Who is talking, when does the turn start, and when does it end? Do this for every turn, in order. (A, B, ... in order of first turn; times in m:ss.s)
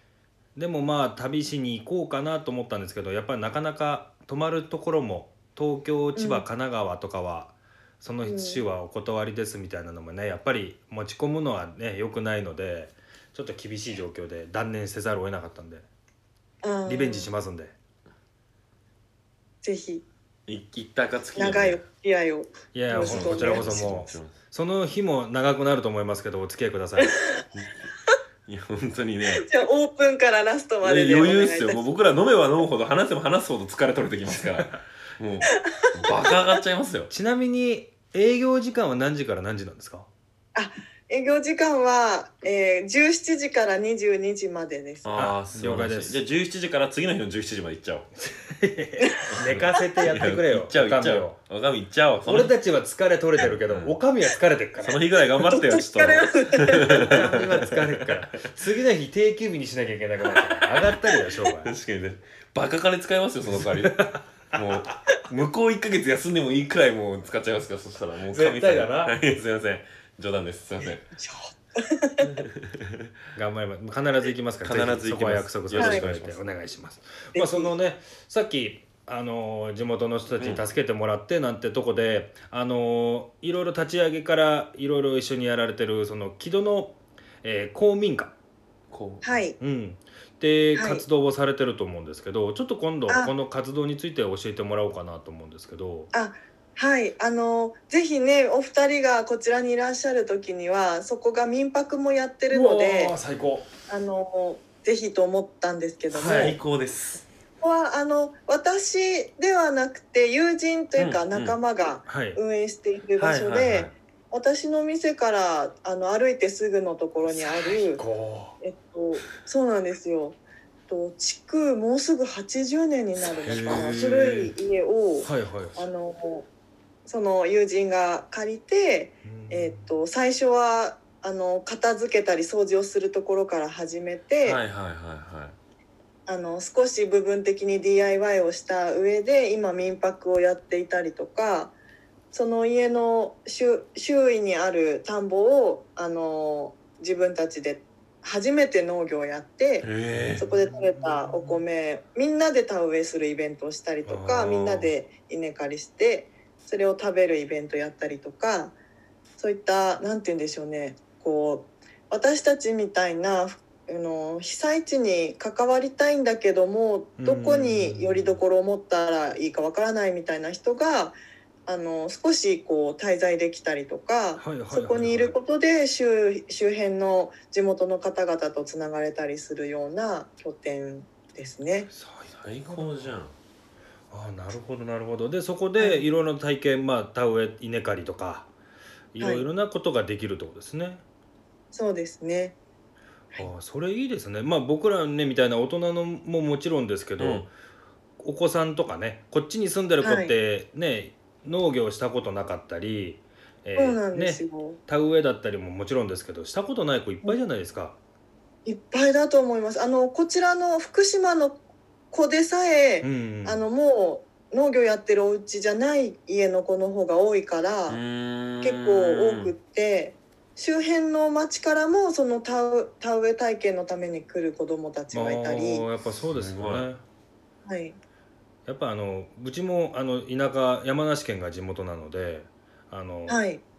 0:00.6-0:15.8 A
0:06.2-0:06.4 B
0:08.2-0:08.6 B
0:16.6-0:17.3 B
0:16.8-0:17.7 A
0:19.6-0:20.0 B
0:20.5-0:21.8 C
0:21.3-0:23.8 B
0:22.7-0:27.2 A
0:22.9-0:24.3 C
0:27.0-0:27.4 B
0:28.4-0:29.4 C
0:29.4-0:31.8 B
0:30.8-0:37.1 C
0:35.5-0:36.3 B
0:37.1-0:40.1 A
0:40.5-0:45.1 B
0:45.0-0:48.1 C
0:45.1-0:46.2 A
0:48.2-0:51.4 A
0:49.0-0:49.8 B
0:49.3-0:52.5 C
0:52.2-0:55.0 A
0:53.4-0:54.0 C
0:54.8-0:58.3 C
0:55.4-0:57.1 B
0:57.0-1:01.7 A
1:01.6-1:11.0 C
1:03.5-1:05.0 A
1:08.3-1:09.2 A
1:11.2-1:12.3 B
1:12.2-1:13.1 C
1:13.3-1:28.3 A
1:14.6-1:16.4 C
1:15.8-1:16.0 B
1:17.3-1:17.7 B
1:20.4-1:20.6 C
1:28.9-1:29.2 C
1:29.2-1:29.6 B
1:29.6-1:36.1 A
1:30.8-1:31.0 B
1:33.1-1:33.3 B
1:36.1-1:43.1 B
1:42.5-1:43.7 A
1:43.9-1:46.5 B
1:46.1-1:47.2 C
1:46.1-1:46.6 A
1:47.6-1:58.0 B
1:51.0-1:51.6 C
1:52.1-1:52.4 A
1:53.2-1:53.9 C
1:57.3-1:58.6 A
1:58.6-2:06.4 B
2:03.4-2:04.1 C
2:03.4-2:04.5 A
2:05.2-2:05.8 A
2:07.0-2:14.6 B
2:09.2-2:09.9 A
2:14.4-2:15.6 C
2:16.3-2:21.7 B
2:22.3-2:38.7 B
2:29.8-2:30.4 C
2:30.5-2:31.6 A
2:34.0-2:34.9 A
2:39.4-3:01.9 B
2:47.2-2:48.4 A
2:54.4-2:55.4 A
3:01.9-3:03.2 A
3:02.3-3:03.3 C
3:04.1-3:08.5 A
3:05.8-3:06.0 B
3:09.1-3:11.0 A
3:09.2-3:09.4 B
3:11.7-3:12.6 B
3:13.4-3:17.5 A
3:17.2-3:17.5 C
3:18.2-3:28.0 A
3:20.0-3:20.3 B
3:23.8-3:24.8 B
3:28.6-3:31.6 B
3:32.1-3:38.0 B
3:33.0-3:33.6 A
3:37.9-3:39.5 C
3:38.6-3:45.8 B
3:45.1-3:47.0 A
3:46.3-3:46.9 C
3:47.6-3:48.0 B
3:48.7-3:53.4 A
3:53.3-3:53.6 B